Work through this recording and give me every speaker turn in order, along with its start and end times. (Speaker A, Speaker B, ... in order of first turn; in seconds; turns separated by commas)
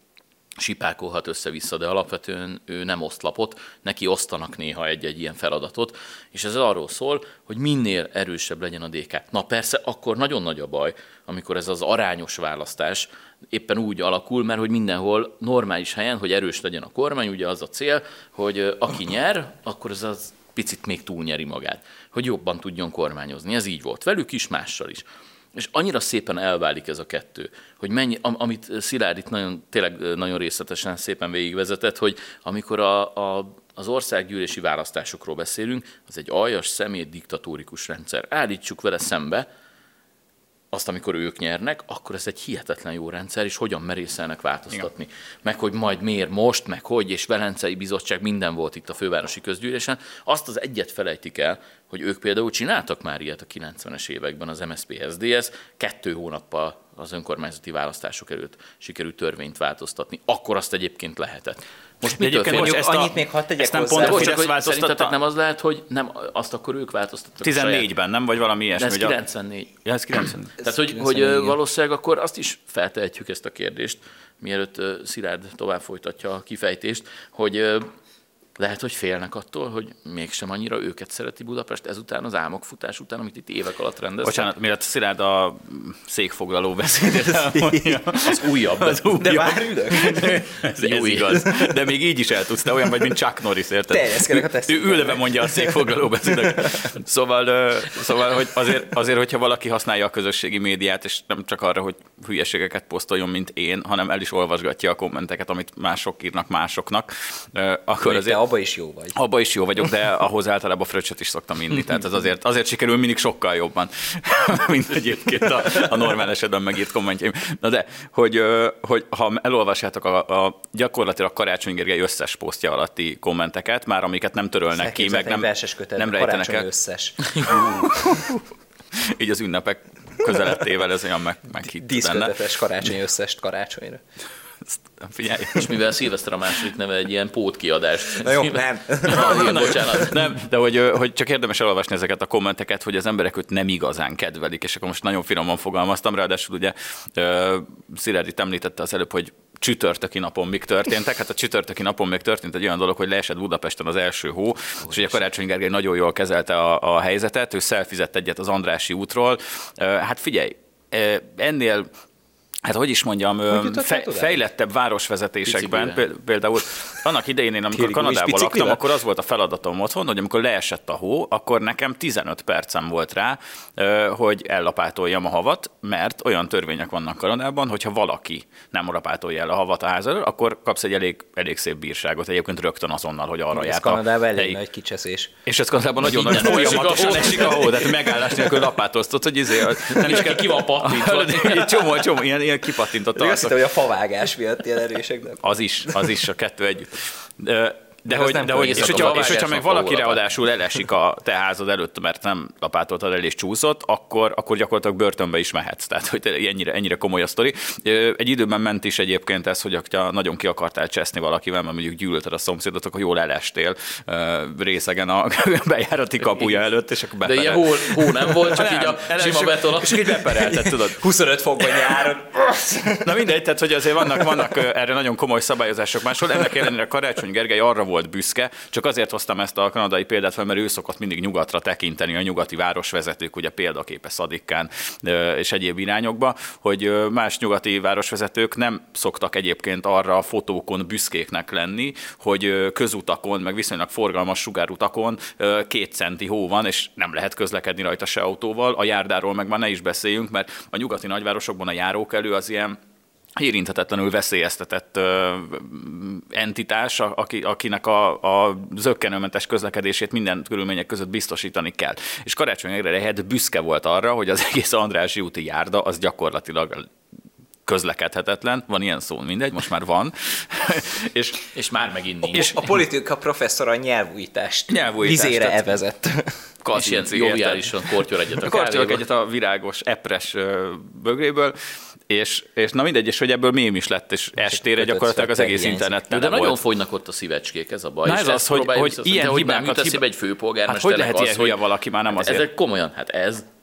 Speaker A: 0.6-39.5, Speaker A: 40.7-63.1, Speaker B: 62.0-65.2, Speaker C: 62.5-64.4, Speaker A: 64.0-67.9, Speaker B: 67.4-69.2, Speaker A: 68.8-77.9, Speaker B: 69.8-70.5, Speaker C: 70.6-71.6, Speaker A: 78.6-84.5, Speaker B: 84.2-108.4, Speaker C: 87.3-88.2, Speaker A: 88.3-89.0, Speaker C: 88.7-90.4, Speaker A: 90.2-91.6, Speaker C: 93.9-96.9, Speaker C: 108.0-109.1, Speaker B: 109.2-126.7, Speaker C: 124.8-127.3, Speaker A: 127.4-127.7, Speaker B: 127.4-128.3, Speaker B: 129.1-132.3, Speaker C: 131.6-134.0, Speaker B: 134.9-135.7, Speaker A: 135.5-140.3, Speaker C: 138.2-139.5, Speaker B: 139.1-161.9, Speaker B: 162.7-184.6, Speaker C: 163.5-164.4, Speaker A: 165.5-166.0, Speaker C: 167.7-168.8, Speaker C: 183.5-185.3, Speaker B: 185.5-193.6, Speaker A: 186.0-188.6, Speaker A: 189.7-191.9, Speaker C: 193.2-195.5, Speaker B: 195.4-221.0, Speaker C: 198.1-199.6, Speaker A: 198.5-200.3, Speaker A: 217.2-220.3, Speaker C: 220.1-223.3, Speaker B: 223.0-252.8, Speaker B: 253.4-266.9, Speaker B: 267.6-271.5, Speaker A: 271.5-272.7, Speaker C: 272.2-276.4, Speaker B: 274.7-275.6, Speaker B: 276.6-277.7, Speaker A: 276.7-279.0, Speaker B: 278.4-281.6, Speaker B: 282.1-286.6, Speaker C: 284.4-285.9, Speaker A: 286.1-291.6, Speaker B: 288.1-290.0, Speaker B: 290.7-292.5, Speaker A: 292.1-293.5